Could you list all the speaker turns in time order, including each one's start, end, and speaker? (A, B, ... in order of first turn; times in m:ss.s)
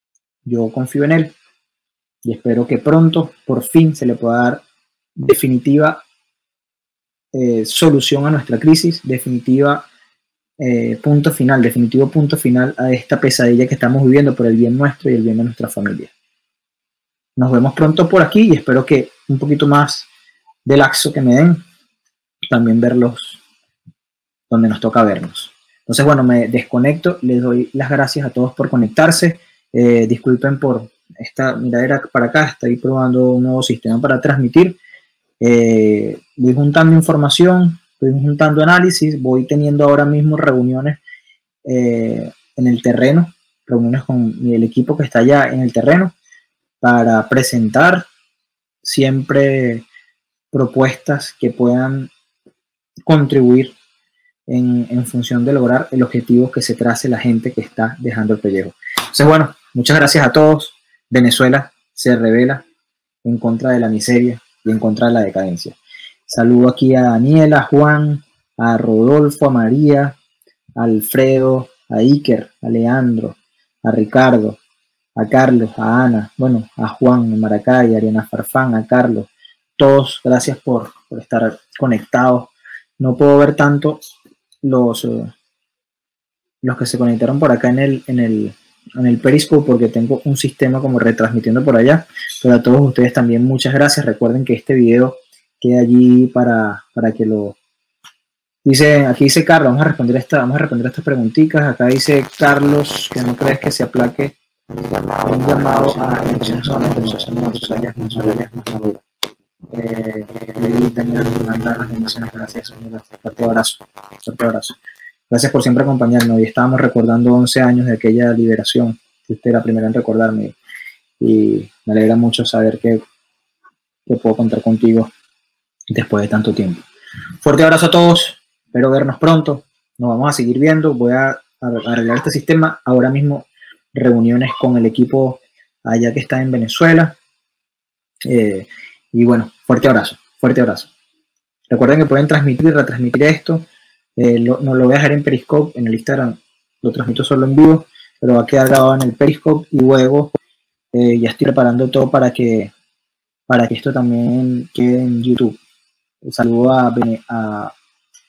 0:00.4-0:01.4 A
0:02.2-0:04.6 A
0:05.2-0:06.0 A
0:07.3-0:09.9 A
0:10.6-0:16.1 A
0:17.4-0:20.1 A
0:20.6-0:21.6 A
0:22.5-0:23.4 A
0:24.5-0:34.8 A
0:35.4-0:41.0 A
0:41.6-0:46.1 A
0:46.8-0:48.1 A
0:48.8-0:49.8 A
0:50.5-0:52.1 A
0:53.1-0:53.8 A
0:54.5-1:02.6 A
1:03.2-1:05.8 A
1:06.3-1:10.2 A
1:10.8-1:14.6 A
1:15.2-1:24.0 A
1:24.6-1:25.3 A
1:26.6-1:37.6 A
1:38.6-1:44.4 A
1:45.2-1:49.0 A
1:49.7-1:54.8 A
1:55.3-2:00.6 A
2:01.2-2:03.0 A
2:04.1-2:05.1 A
2:05.9-2:06.8 A
2:07.4-2:17.2 A
2:18.3-2:20.9 A
2:21.7-2:23.7 A
2:24.2-2:30.3 A
2:30.9-2:32.7 A
2:33.5-2:35.6 A
2:36.2-2:37.7 A